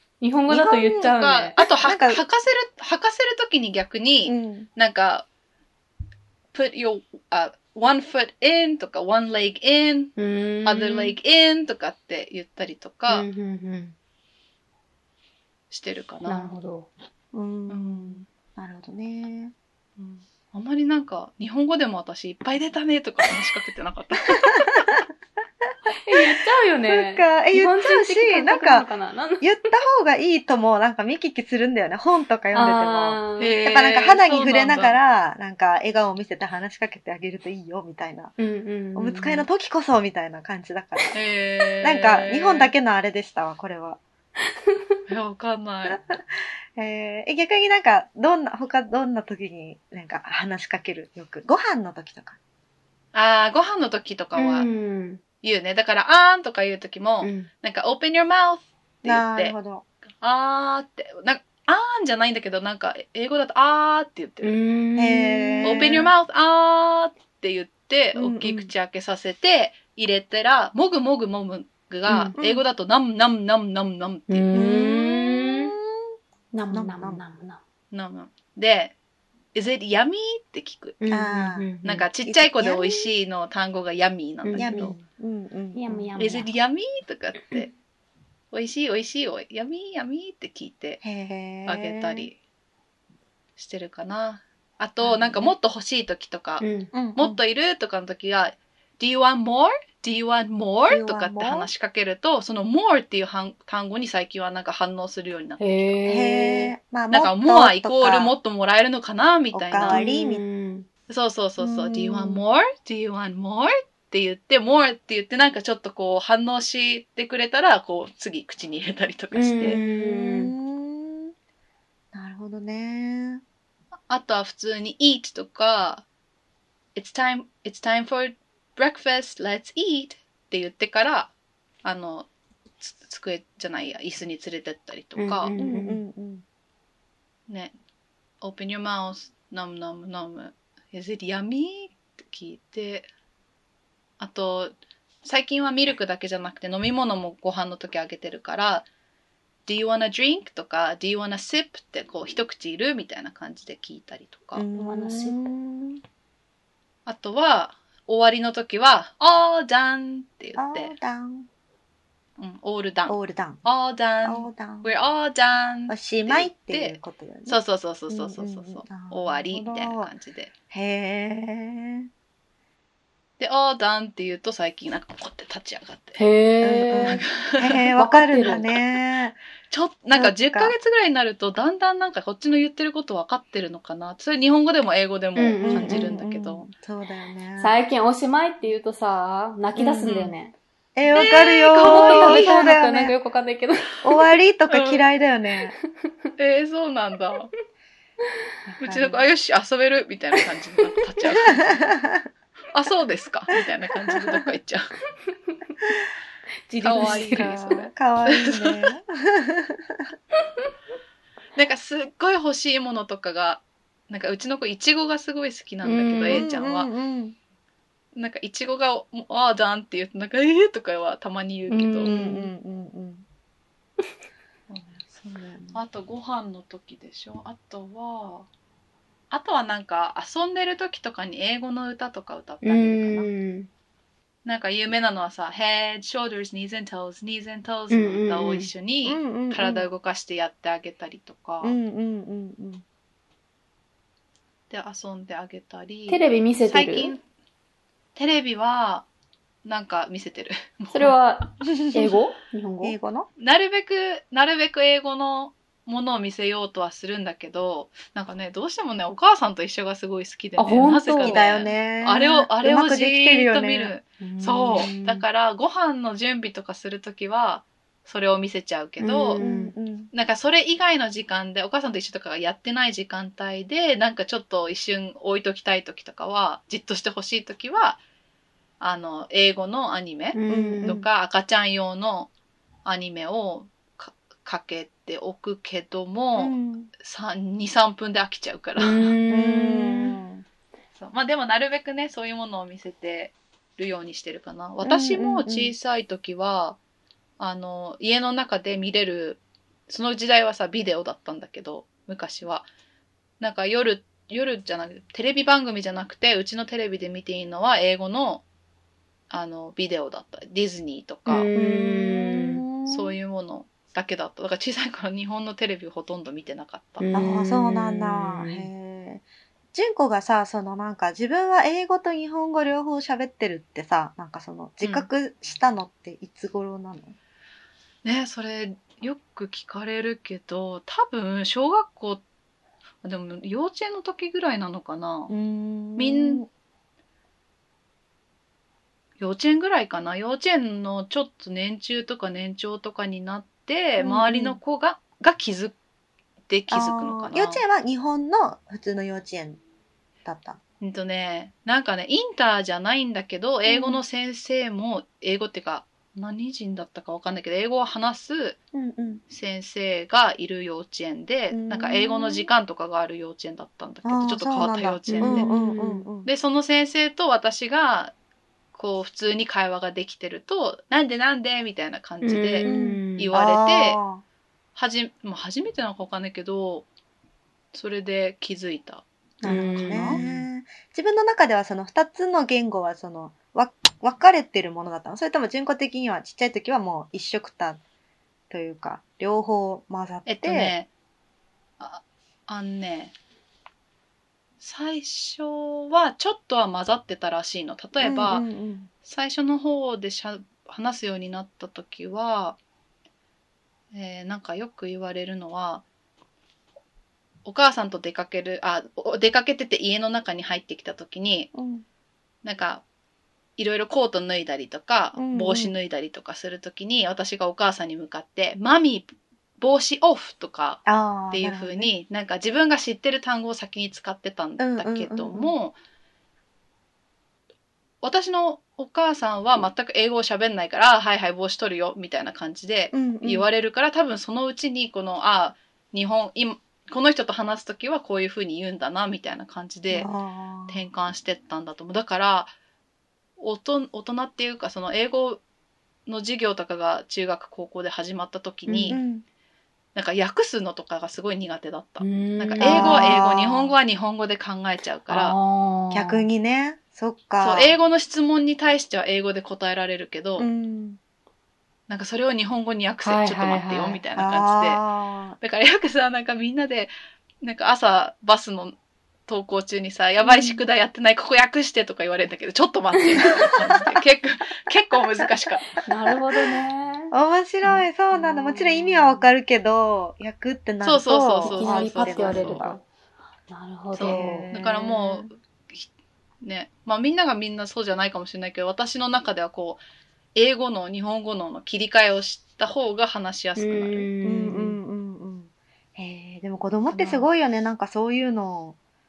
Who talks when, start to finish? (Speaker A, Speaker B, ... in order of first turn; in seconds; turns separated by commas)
Speaker A: 0.2-1.6, Speaker B: 0.5-2.2, Speaker C: 1.1-5.3, Speaker B: 4.3-4.7, Speaker C: 6.5-10.1, Speaker A: 10.2-11.2, Speaker C: 10.7-13.3, Speaker A: 13.1-13.9, Speaker C: 15.7-16.5, Speaker A: 16.2-16.9, Speaker B: 17.3-19.5, Speaker C: 17.7-18.3, Speaker C: 20.0-24.9, Speaker A: 26.0-29.5, Speaker B: 26.9-28.9, Speaker B: 29.4-38.3, Speaker A: 32.5-33.5, Speaker C: 33.4-35.0, Speaker A: 38.4-39.5, Speaker B: 39.0-41.1, Speaker C: 41.1-42.7, Speaker B: 41.8-44.0, Speaker C: 45.1-46.0, Speaker B: 45.9-46.2, Speaker B: 46.8-52.4, Speaker C: 53.1-54.7, Speaker A: 54.4-55.2, Speaker C: 55.4-59.5, Speaker A: 57.2-57.5, Speaker B: 59.0-59.9, Speaker C: 60.2-64.5, Speaker A: 64.4-65.9, Speaker B: 65.0-66.1, Speaker C: 65.6-74.5, Speaker B: 68.2-68.7, Speaker A: 72.1-72.3, Speaker B: 72.4-72.6, Speaker A: 74.3-75.7, Speaker B: 74.5-76.1, Speaker A: 76.5-77.6, Speaker B: 76.7-77.2, Speaker C: 77.9-78.9, Speaker C: 79.5-81.0, Speaker A: 81.0-82.1, Speaker B: 81.1-81.7, Speaker C: 81.8-85.0, Speaker B: 82.2-83.1, Speaker A: 84.4-85.0, Speaker B: 84.6-86.1, Speaker A: 85.7-86.5, Speaker C: 86.2-87.7, Speaker C: 88.5-91.0, Speaker B: 91.0-92.3, Speaker C: 91.7-92.4, Speaker C: 93.6-96.6, Speaker B: 95.0-95.5, Speaker A: 96.6-96.9, Speaker B: 96.9-97.4, Speaker C: 97.2-105.9, Speaker B: 100.9-101.7, Speaker A: 105.6-106.7, Speaker B: 106.1-108.3, Speaker C: 107.1-110.0, Speaker B: 109.5-110.4, Speaker A: 109.8-110.9, Speaker C: 111.1-119.8, Speaker B: 111.6-112.4, Speaker A: 119.3-120.5, Speaker B: 119.6-121.3, Speaker B: 122.1-123.4, Speaker C: 124.1-126.0, Speaker C: 127.0-131.3, Speaker C: 131.8-132.3, Speaker C: 132.8-135.5, Speaker A: 135.2-136.0, Speaker B: 135.6-136.4, Speaker C: 137.5-137.7, Speaker C: 138.4-143.1, Speaker C: 144.2-148.9, Speaker C: 149.7-154.7, Speaker B: 154.6-156.0, Speaker A: 154.8-155.5, Speaker C: 157.1-160.9, Speaker B: 160.6-161.5, Speaker C: 162.4-170.5, Speaker B: 163.1-163.6, Speaker B: 164.2-164.9, Speaker B: 165.9-167.6, Speaker B: 168.1-170.1, Speaker B: 170.7-172.1, Speaker C: 173.4-176.2, Speaker A: 176.2-177.2, Speaker B: 176.6-179.4, Speaker C: 176.9-178.7, Speaker A: 178.0-178.8, Speaker C: 179.7-186.7, Speaker B: 180.1-180.7, Speaker A: 185.4-186.1, Speaker B: 185.6-187.8, Speaker A: 187.6-190.6, Speaker B: 189.8-190.3, Speaker B: 191.0-193.1, Speaker C: 191.1-192.7, Speaker A: 191.8-194.2, Speaker B: 194.0-195.7, Speaker C: 194.7-195.0, Speaker C: 196.4-197.5, Speaker B: 198.7-199.3, Speaker C: 198.8-201.8, Speaker B: 201.7-202.2, Speaker C: 202.7-204.9, Speaker B: 204.1-204.5, Speaker A: 206.7-207.6, Speaker C: 206.8-208.9, Speaker B: 206.9-210.0, Speaker C: 211.6-216.9, Speaker A: 215.8-216.5, Speaker B: 216.3-217.4, Speaker C: 218.2-222.2, Speaker A: 221.7-222.5, Speaker B: 222.0-223.2, Speaker C: 224.7-225.0, Speaker B: 225.0-225.8, Speaker C: 225.7-228.5, Speaker C: 229.3-233.3, Speaker A: 232.6-233.7, Speaker C: 234.4-241.8, Speaker A: 237.9-238.7, Speaker B: 239.1-239.9, Speaker B: 241.6-242.8, Speaker C: 244.7-247.2, Speaker A: 246.1-247.2, Speaker C: 248.2-249.1, Speaker C: 249.7-251.2, Speaker A: 250.9-253.0, Speaker B: 251.7-252.1, Speaker B: 252.8-253.3, Speaker C: 253.4-269.4, Speaker A: 260.6-261.5, Speaker B: 261.1-263.9, Speaker A: 264.2-265.2, Speaker A: 269.0-269.8, Speaker B: 269.4-270.1, Speaker C: 270.1-278.0, Speaker C: 278.8-282.3, Speaker A: 280.3-281.0, Speaker B: 280.5-281.1, Speaker C: 282.9-289.1, Speaker B: 286.4-286.9, Speaker A: 288.8-290.1, Speaker B: 289.3-290.4, Speaker C: 291.0-296.8, Speaker B: 294.8-295.7, Speaker C: 297.4-302.6, Speaker C: 303.4-308.4, Speaker C: 309.3-311.5, Speaker A: 311.3-312.6, Speaker B: 311.5-313.2, Speaker C: 312.9-317.3, Speaker A: 317.0-318.7, Speaker B: 317.1-327.2, Speaker C: 324.8-325.1, Speaker C: 328.0-332.2, Speaker C: 333.0-335.3, Speaker B: 335.3-336.5, Speaker C: 336.0-336.4, Speaker C: 339.2-345.8, Speaker B: 344.0-344.6, Speaker C: 346.5-347.6, Speaker B: 346.7-349.6, Speaker B: 350.2-350.6, Speaker C: 350.8-358.6, Speaker B: 353.7-354.0, Speaker B: 358.7-359.2, Speaker C: 359.3-365.5, Speaker B: 361.5-362.5, Speaker B: 364.0-366.3, Speaker A: 365.1-366.1, Speaker C: 366.2-368.1, Speaker C: 368.7-374.0, Speaker A: 372.2-373.3, Speaker B: 372.6-374.2, Speaker C: 374.8-376.9, Speaker C: 377.7-380.2, Speaker B: 379.4-387.8, Speaker A: 379.4-380.5, Speaker B: 388.5-390.7, Speaker C: 390.3-390.9, Speaker C: 391.8-393.1, Speaker C: 394.6-398.4, Speaker B: 398.0-398.9, Speaker C: 399.1-402.6, Speaker C: 403.9-405.8, Speaker C: 407.4-411.5, Speaker B: 411.5-411.8, Speaker C: 412.4-412.8, Speaker C: 413.6-419.1, Speaker B: 415.2-415.7, Speaker C: 419.6-425.8, Speaker B: 420.9-421.9, Speaker B: 424.6-425.5, Speaker C: 428.0-440.1, Speaker B: 432.9-433.5, Speaker B: 439.9-440.8, Speaker C: 440.7-442.5, Speaker C: 443.4-445.4, Speaker C: 446.1-449.0, Speaker A: 448.7-449.0, Speaker B: 448.9-449.2, Speaker C: 449.9-455.4, Speaker A: 452.0-453.2, Speaker B: 452.6-453.8, Speaker A: 455.1-456.3, Speaker B: 455.9-457.7, Speaker C: 457.4-460.5, Speaker B: 460.4-461.0, Speaker C: 461.9-464.8, Speaker A: 463.0-464.0, Speaker B: 464.2-465.4, Speaker C: 465.4-475.8, Speaker B: 470.2-470.6, Speaker A: 473.1-473.7, Speaker A: 475.8-477.1, Speaker B: 477.1-482.8, Speaker A: 477.6-479.3, Speaker C: 480.8-482.7, Speaker A: 481.4-482.9, Speaker A: 483.5-484.5, Speaker C: 483.9-485.9, Speaker B: 484.1-485.3, Speaker C: 486.4-489.8, Speaker C: 490.4-494.1, Speaker A: 493.6-494.8, Speaker B: 494.2-498.8, Speaker C: 496.9-497.3